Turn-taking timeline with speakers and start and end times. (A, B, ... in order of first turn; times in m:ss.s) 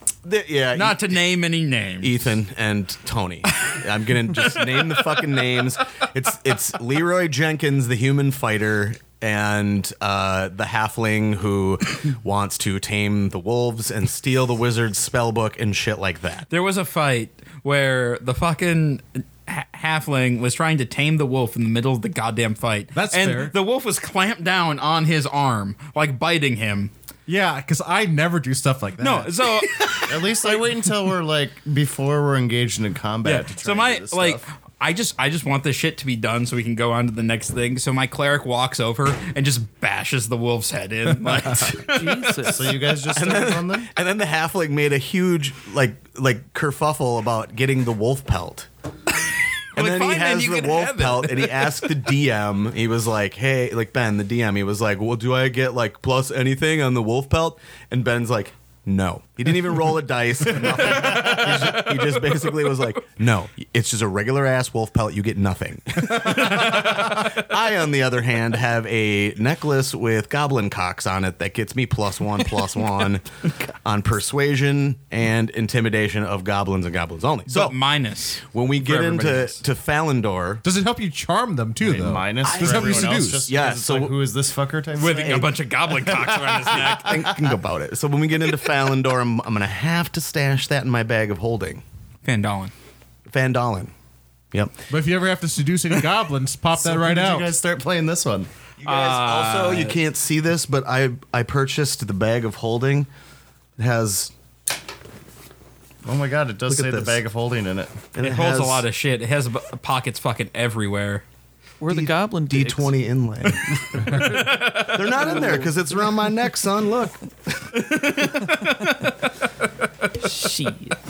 0:00.2-0:01.2 A
0:00.7-0:02.4 B
0:02.0-0:16.5 A
0:16.5-0:26.9 B
0:22.9-0:23.6 C
0:27.3-0:29.7 C
0:29.0-0:30.5 B
0:30.0-0:34.4 D
0:33.2-0:42.4 B
0:41.9-0:42.7 E
0:42.4-0:43.9 D
0:43.1-0:48.7 A
0:49.7-0:51.7 B
0:49.7-1:17.8 A
1:17.5-1:19.6 B
1:18.4-1:20.6 A
1:20.6-1:23.5 C
1:21.8-1:26.9 D
1:22.5-1:24.2 A
1:24.9-1:27.2 B
1:26.8-1:31.8 A
1:32.2-1:32.7 B
1:33.3-1:33.9 A
1:34.5-1:34.8 A
1:34.9-1:37.5 C
1:36.8-1:38.5 D
1:38.8-1:43.1 A
1:38.8-1:40.0 B
1:43.8-1:44.3 A
1:46.0-1:48.1 D
1:46.7-1:47.2 A
1:48.1-1:48.8 A
1:48.2-1:51.2 B
1:51.8-1:53.0 E
1:51.9-1:57.8 A
1:54.2-1:54.9 B
1:55.2-1:55.7 E
1:57.8-1:59.2 B
2:00.2-2:01.0 E